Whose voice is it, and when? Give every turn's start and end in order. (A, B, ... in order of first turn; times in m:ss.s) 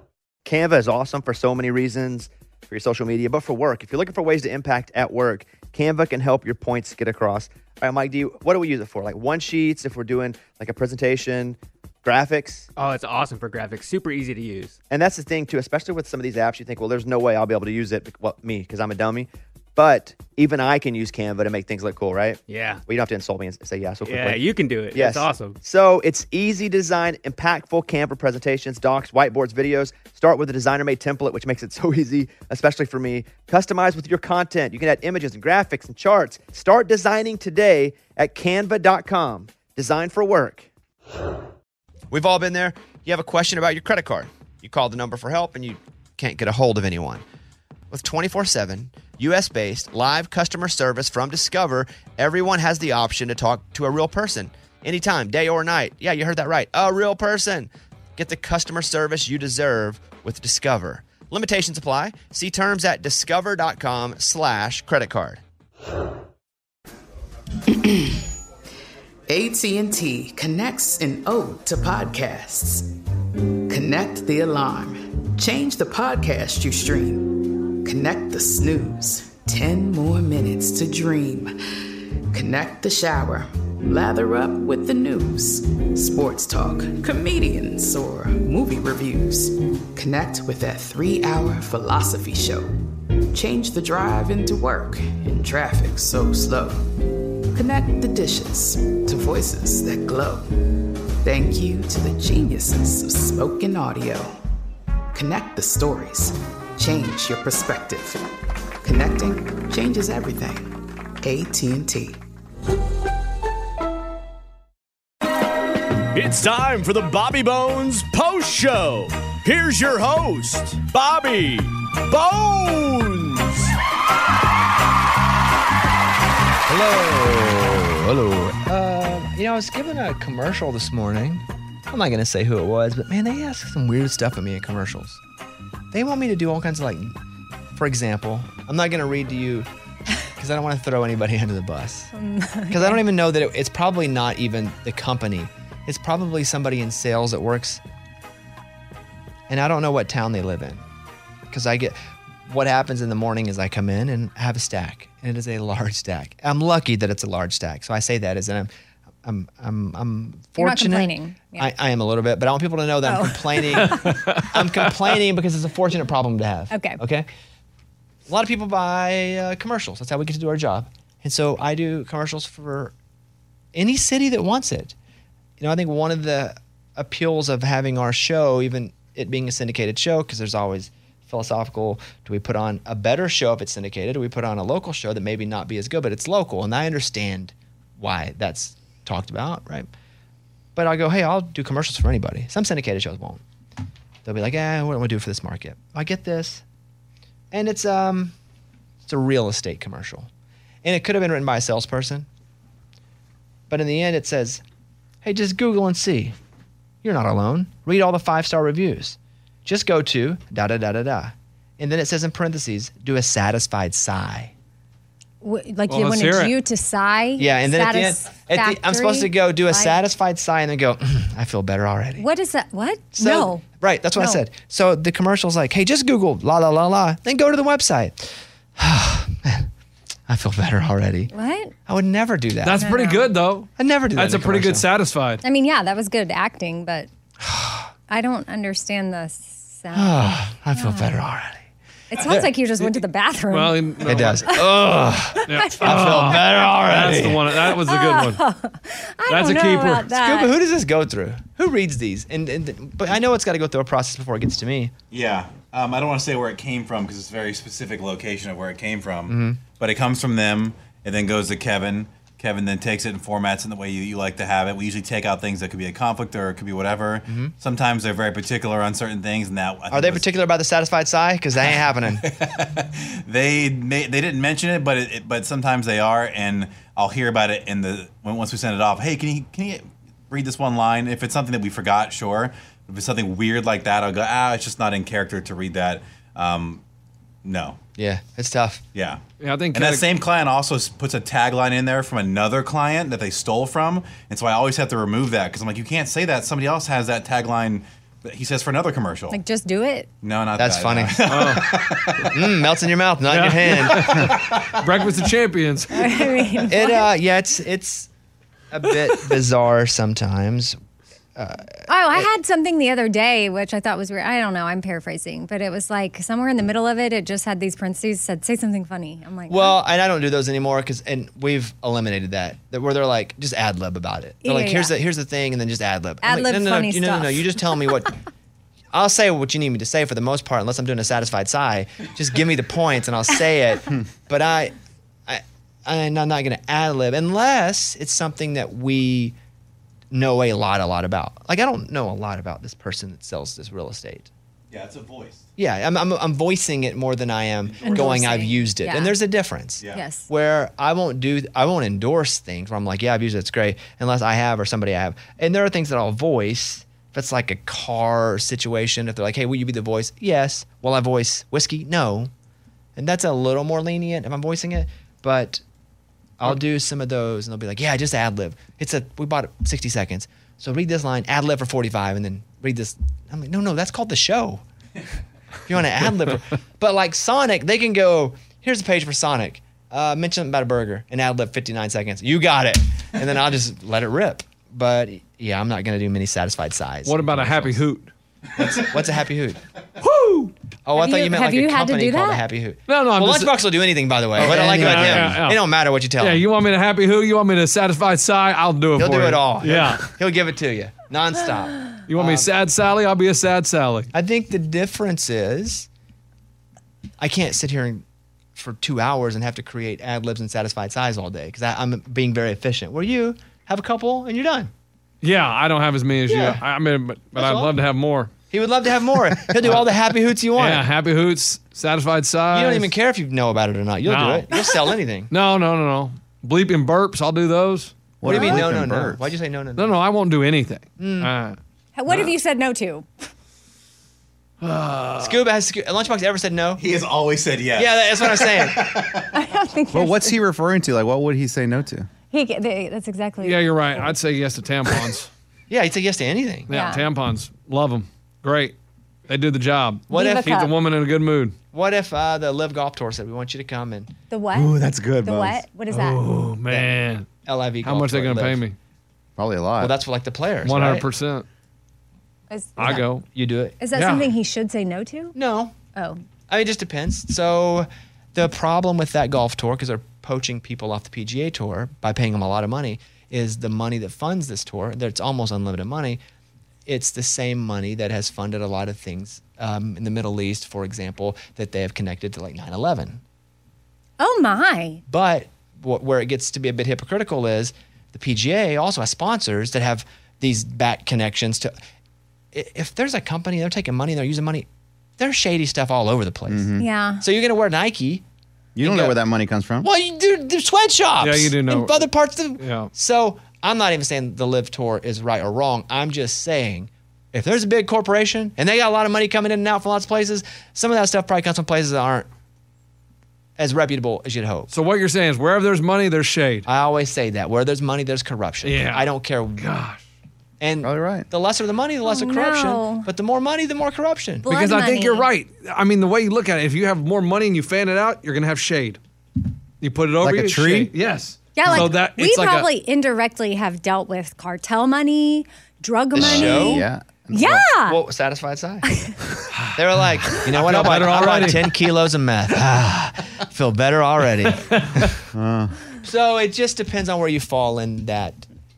0:00.4-0:12.7 A
0:12.8-0:14.8 B
0:14.9-0:40.7 A
0:22.5-0:22.8 B
0:24.0-0:25.6 B
0:42.1-0:47.2 A
0:47.9-1:05.4 A
1:07.7-1:08.3 C
1:09.3-1:12.9 C
1:13.7-1:21.6 C
1:22.3-1:36.9 C
1:37.5-1:44.4 C
1:45.1-1:48.2 C
1:48.8-1:52.2 C
1:56.1-2:03.7 D
2:06.7-2:15.2 A
2:15.9-2:17.2 A
2:17.7-2:19.7 A
2:20.3-2:22.1 A
2:22.1-2:23.0 E
2:22.7-2:27.8 A
2:29.5-2:30.8 A
2:31.5-2:38.7 A
2:39.2-2:47.3 A
2:40.6-2:41.6 E
2:43.0-2:44.1 E
2:43.8-2:44.8 F
2:46.7-2:47.0 E
2:48.3-2:52.9 A
2:53.7-2:54.9 A
2:55.6-3:09.9 A
3:10.8-3:13.4 A
3:14.2-3:16.6 A
3:17.5-3:18.3 A
3:19.0-3:20.3 A
3:20.8-3:22.3 A
3:23.7-3:24.6 A
3:25.2-3:26.3 A
3:27.0-3:34.5 A
3:35.4-3:40.0 E
3:35.9-3:36.5 F
3:37.4-3:42.2 A
3:42.2-3:43.6 E
3:43.2-3:49.7 A
3:50.3-3:51.3 A
3:51.3-3:51.7 E
3:51.9-3:52.8 A
3:52.6-3:55.4 F
3:52.8-3:53.3 E
3:53.8-3:54.9 A
3:55.4-3:57.1 E
3:57.4-3:57.9 A
3:58.1-4:01.2 E
3:59.9-4:01.6 A
4:02.1-4:04.6 E
4:02.1-4:02.5 A
4:03.5-4:08.4 F
4:04.0-4:07.5 A
4:05.4-4:06.2 E
4:07.6-4:10.5 E
4:09.3-4:10.1 F
4:10.1-4:14.9 A
4:15.1-4:30.3 G
4:19.3-4:19.6 A
4:27.3-4:27.5 A
4:29.9-4:32.3 A
4:31.7-4:46.8 G
4:47.4-4:47.8 G
4:48.0-4:48.8 A
4:48.9-4:49.2 G
4:49.4-4:50.0 F
4:49.7-4:59.4 G
4:59.3-5:00.1 E
5:00.2-5:02.6 G
5:00.6-5:04.3 A
5:01.2-5:02.2 F
5:03.3-5:06.5 F
5:03.8-5:05.2 G
5:05.9-5:07.1 E
5:06.7-5:08.1 A
5:08.7-5:10.8 A
5:09.0-5:09.3 F
5:11.4-5:12.3 A
5:11.9-5:19.8 E
5:19.5-5:28.1 A
5:24.4-5:24.9 E
5:26.2-5:27.9 E
5:28.9-5:34.8 A
5:35.3-5:39.3 A
5:40.1-5:44.3 A
5:44.7-5:45.5 G
5:45.6-6:02.3 A
5:47.6-5:48.3 G
5:47.8-5:49.2 E
5:49.9-5:50.3 E
6:03.0-6:05.6 A
6:06.4-6:14.6 A
6:15.7-6:27.8 A
6:27.0-6:28.1 F
6:28.6-6:29.6 A
6:28.6-6:28.9 G
6:30.0-6:30.5 F
6:30.8-6:36.4 A
6:30.9-6:32.4 E
6:32.9-6:33.7 F
6:34.3-6:40.1 F
6:34.8-6:35.3 H
6:34.8-6:35.2 G
6:39.0-6:42.5 A
6:42.1-6:44.1 F
6:44.1-6:45.9 A
6:47.2-6:48.0 A
6:48.6-6:54.7 A
6:55.2-6:58.3 F
6:56.3-6:56.6 A
6:57.3-6:57.7 A
6:58.5-7:00.8 A
6:59.6-6:59.9 F
7:00.5-7:02.9 F
7:02.5-7:05.3 A
7:04.0-7:07.9 F
7:08.2-7:09.3 H
7:08.2-7:10.0 A
7:09.8-7:11.6 F
7:11.0-7:11.3 A
7:12.0-7:13.1 E
7:14.6-7:15.4 F
7:15.2-7:16.8 A
7:16.8-7:19.4 G
7:17.8-7:19.0 A
7:19.3-7:20.4 E
7:19.9-7:22.1 H
7:22.3-7:24.1 E
7:23.4-7:25.3 F
7:25.7-7:26.7 A
7:26.7-7:28.8 F
7:26.7-7:27.0 E
7:29.3-7:31.6 F
7:30.1-7:30.5 A
7:30.1-7:30.7 E
7:31.7-7:34.1 A
7:34.3-7:36.2 E
7:34.5-7:35.6 H
7:35.9-7:37.3 F
7:36.7-7:38.6 A
7:37.8-7:38.8 F
7:39.4-7:39.9 H
7:39.8-7:41.1 A
7:40.6-7:41.4 F
7:42.5-7:42.8 E
7:42.8-7:43.2 F
7:42.8-7:43.8 A
7:43.8-7:45.3 E
7:43.9-7:44.3 F
7:45.3-7:45.7 A
7:45.9-7:46.2 E
7:46.5-7:56.2 A
7:56.8-8:03.2 A
8:04.2-8:05.0 E
8:05.1-8:11.7 A
8:12.5-8:14.7 A
8:15.2-8:18.2 A
8:16.5-8:16.9 H
8:16.8-8:17.2 E
8:18.8-8:19.9 H
8:18.8-8:19.2 A
8:19.8-8:32.3 A
8:21.2-8:22.9 F
8:33.6-8:34.7 A
8:34.7-8:36.7 F
8:36.7-8:39.7 A
8:38.6-8:40.0 F
8:40.6-8:44.5 A
8:40.8-8:41.3 H
8:42.0-8:43.1 E
8:44.5-8:45.3 E
8:44.5-8:49.0 F
8:49.8-8:52.7 F
8:50.2-8:50.9 H
8:51.6-8:58.0 E
8:56.2-8:56.8 A
8:56.2-8:57.7 H
8:57.8-8:58.9 A
8:58.9-8:59.2 E
8:59.5-8:59.8 F
8:59.8-9:05.2 A
9:00.3-9:01.9 F
9:04.7-9:05.1 F
9:05.3-9:05.8 H
9:06.0-9:08.4 A